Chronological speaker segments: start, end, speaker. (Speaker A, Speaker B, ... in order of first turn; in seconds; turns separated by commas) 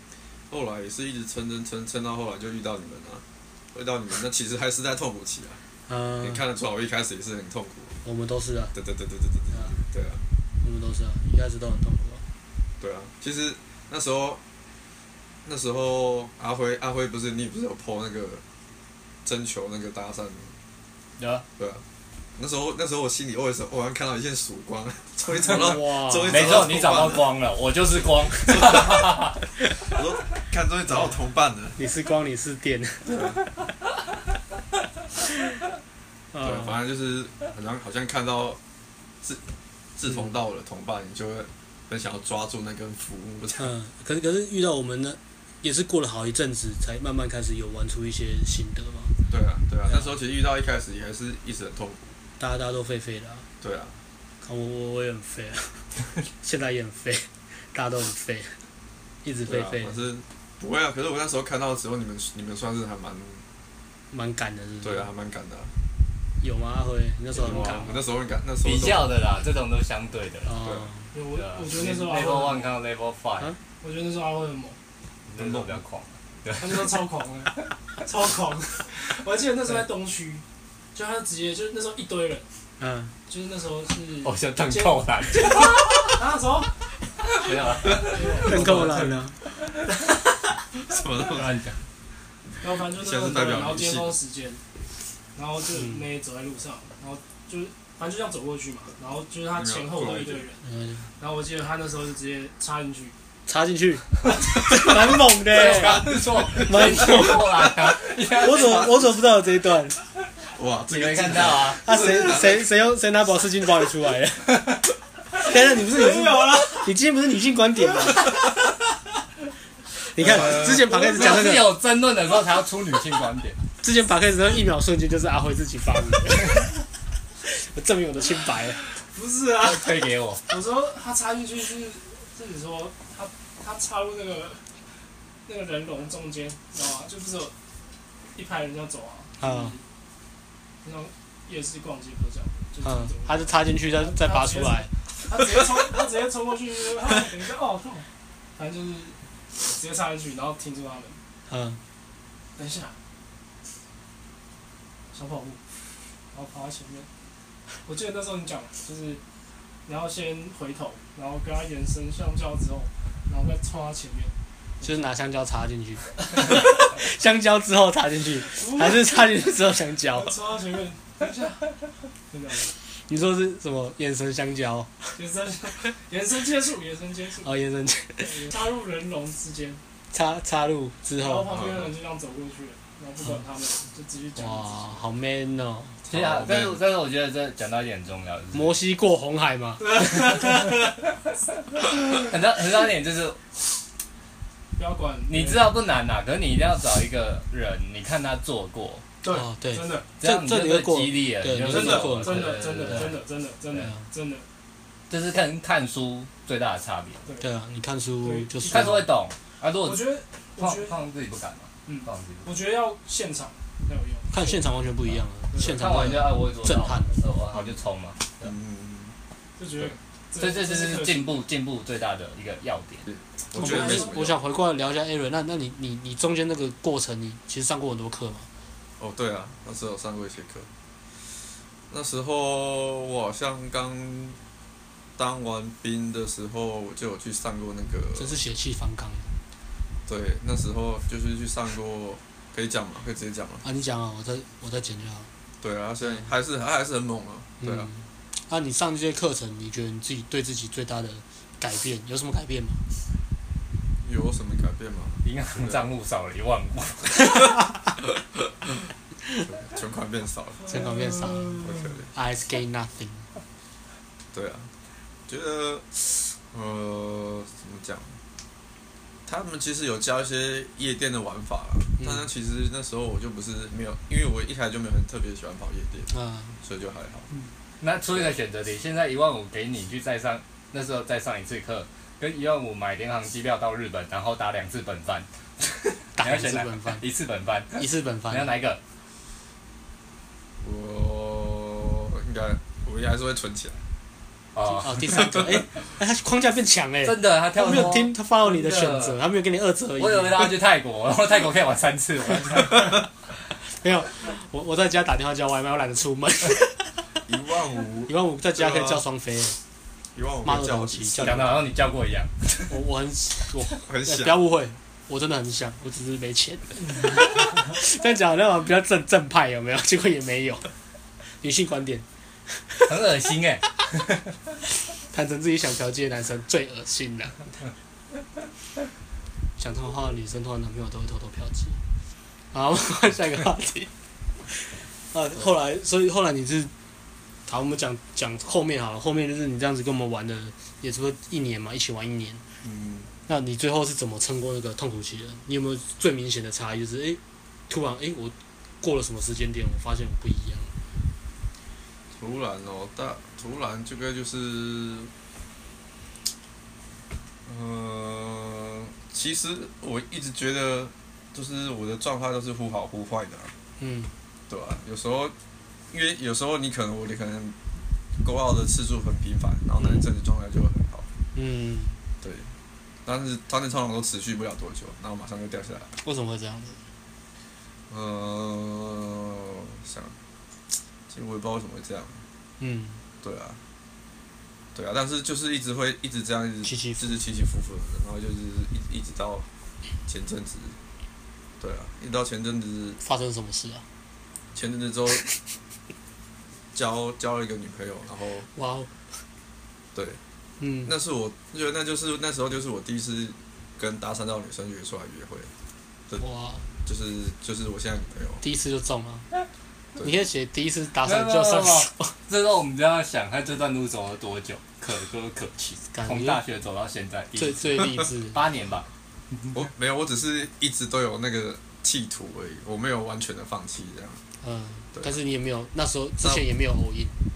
Speaker A: 0.5-5.6, Speaker B: 5.9-6.4, Speaker A: 6.2-8.0, Speaker B: 8.0-8.8, Speaker A: 8.8-10.2, Speaker B: 9.5-9.8, Speaker B: 10.6-12.2, Speaker A: 12.8-14.4, Speaker A: 15.4-18.4, Speaker A: 19.2-20.5, Speaker C: 21.2-21.4, Speaker A: 21.6-21.8, Speaker A: 22.4-27.3, Speaker B: 25.5-26.7, Speaker C: 26.3-29.4, Speaker A: 28.5-29.1, Speaker A: 29.9-31.8, Speaker B: 31.8-33.4, Speaker A: 33.1-33.4, Speaker B: 36.3-36.8, Speaker A: 36.4-38.6, Speaker A: 40.0-43.7, Speaker B: 43.6-49.1, Speaker A: 49.3-52.1, Speaker B: 49.9-50.1, Speaker B: 52.4-53.5, Speaker A: 53.6-54.0, Speaker B: 54.4-58.6, Speaker B: 59.2-60.0, Speaker A: 59.5-63.5, Speaker B: 64.1-65.1, Speaker A: 64.8-65.7, Speaker B: 66.4-68.0, Speaker A: 67.4-69.1, Speaker C: 68.6-70.5, Speaker B: 70.5-71.1, Speaker A: 70.6-70.9, Speaker D: 71.1-72.7, Speaker C: 71.3-73.5, Speaker D: 73.8-74.8, Speaker C: 75.3-76.9, Speaker A: 75.4-75.8, Speaker D: 76.6-82.5, Speaker B: 82.8-83.1, Speaker D: 83.3-86.8, Speaker C: 84.2-86.1, Speaker C: 87.3-89.2, Speaker D: 87.5-89.1, Speaker B: 88.4-89.4, Speaker A: 90.8-91.5, Speaker C: 91.2-91.8, Speaker D: 92.6-94.6, Speaker A: 93.0-94.2, Speaker D: 95.3-100.6, Speaker B: 95.7-96.1, Speaker A: 99.5-100.5, Speaker B: 100.6-101.1, Speaker D: 101.2-103.2, Speaker B: 103.5-107.7, Speaker C: 105.5-108.9, Speaker A: 105.8-107.3, Speaker B: 108.4-110.0, Speaker A: 110.5-112.6, Speaker C: 110.9-111.8, Speaker B: 111.8-114.7, Speaker B: 115.4-118.3, Speaker D: 115.8-116.8, Speaker B: 120.1-121.8, Speaker C: 120.2-123.6, Speaker A: 120.2-120.8, Speaker B: 123.8-126.7, Speaker B: 127.4-128.8, Speaker D: 129.1-134.7, Speaker C: 129.6-130.4, Speaker D: 135.5-137.5, Speaker D: 138.3-139.8, Speaker B: 139.4-139.8, Speaker D: 140.8-151.2, Speaker B: 142.8-144.9, Speaker B: 151.5-151.8, Speaker D: 152.6-153.0, Speaker D: 155.1-155.6, Speaker D: 156.3-157.1, Speaker D: 157.8-159.2, Speaker D: 159.8-165.1, Speaker B: 164.8-170.3, Speaker D: 168.6-169.2, Speaker D: 170.1-172.7, Speaker B: 173.1-175.1, Speaker D: 175.2-177.5, Speaker B: 177.4-178.5, Speaker D: 178.2-179.8, Speaker B: 180.1-181.6, Speaker D: 181.2-185.0, Speaker A: 181.5-181.9, Speaker B: 184.4-186.0, Speaker C: 186.1-188.8, Speaker A: 186.1-186.8, Speaker B: 188.5-190.6, Speaker D: 189.8-190.8, Speaker C: 191.8-193.4, Speaker D: 194.8-195.7, Speaker C: 195.3-199.0, Speaker D: 199.2-200.1, Speaker B: 199.3-203.2, Speaker C: 200.2-203.2, Speaker D: 201.7-204.5, Speaker B: 203.8-204.0, Speaker C: 205.1-207.2, Speaker B: 207.4-209.1, Speaker D: 208.2-209.1, Speaker C: 208.7-212.5, Speaker D: 209.8-211.0, Speaker D: 211.9-214.6, Speaker B: 214.3-217.2, Speaker D: 215.5-215.9, Speaker C: 215.6-218.5, Speaker A: 217.5-217.8, Speaker A: 218.4-219.1, Speaker D: 219.6-221.4, Speaker C: 220.4-223.1, Speaker A: 223.1-224.4, Speaker B: 223.5-228.5, Speaker D: 223.6-224.2, Speaker A: 229.0-230.7, Speaker A: 231.9-234.4, Speaker A: 235.2-238.3, Speaker B: 238.2-239.3, Speaker A: 240.1-243.6, Speaker B: 243.6-245.3, Speaker A: 245.6-247.9, Speaker B: 247.6-252.8, Speaker A: 254.0-255.9, Speaker C: 255.2-257.5, Speaker A: 259.4-260.7, Speaker D: 260.6-261.8, Speaker B: 260.7-263.3, Speaker A: 261.6-262.1, Speaker A: 264.3-264.7, Speaker A: 265.3-268.2, Speaker A: 269.2-276.1, Speaker B: 272.0-272.3, Speaker B: 276.1-276.6, Speaker A: 276.6-277.3, Speaker C: 277.8-288.8, Speaker A: 278.1-278.3, Speaker B: 286.2-287.0, Speaker B: 287.8-288.5, Speaker A: 290.6-293.8, Speaker C: 294.5-295.4, Speaker B: 294.7-300.5, Speaker A: 295.2-295.6, Speaker C: 297.0-299.2, Speaker C: 300.0-303.0, Speaker B: 303.7-307.0, Speaker A: 307.2-309.0, Speaker B: 308.1-309.6, Speaker A: 310.1-311.6, Speaker B: 310.4-311.6, Speaker C: 311.2-312.7, Speaker B: 312.7-320.7, Speaker A: 313.9-314.4, Speaker B: 321.4-322.9, Speaker C: 322.9-323.9, Speaker B: 325.1-327.5, Speaker B: 329.6-331.8, Speaker B: 332.5-333.9, Speaker B: 334.5-336.7, Speaker B: 337.5-342.4, Speaker A: 342.6-343.1, Speaker B: 343.3-350.7, Speaker A: 352.1-355.1, Speaker A: 357.5-363.5, Speaker B: 363.8-364.1, Speaker A: 364.5-365.4, Speaker A: 365.9-367.6, Speaker A: 368.2-371.1, Speaker B: 371.4-372.0, Speaker A: 372.2-372.5, Speaker A: 373.0-375.9, Speaker B: 376.0-376.8, Speaker A: 377.9-380.1, Speaker A: 381.1-382.2, Speaker B: 382.6-383.0, Speaker A: 383.2-383.6, Speaker A: 384.7-389.5, Speaker B: 386.6-387.2, Speaker A: 390.1-390.8, Speaker A: 391.6-393.0, Speaker B: 393.0-393.9, Speaker A: 394.5-395.2, Speaker A: 396.7-398.5, Speaker B: 398.5-398.9, Speaker A: 399.9-400.2, Speaker B: 400.6-400.9, Speaker A: 400.9-405.5, Speaker B: 406.2-406.7, Speaker A: 406.9-408.4, Speaker B: 408.4-409.3, Speaker B: 410.0-412.1, Speaker C: 411.0-418.9, Speaker B: 415.9-416.4, Speaker B: 417.4-418.4, Speaker A: 419.5-424.2, Speaker B: 424.4-427.2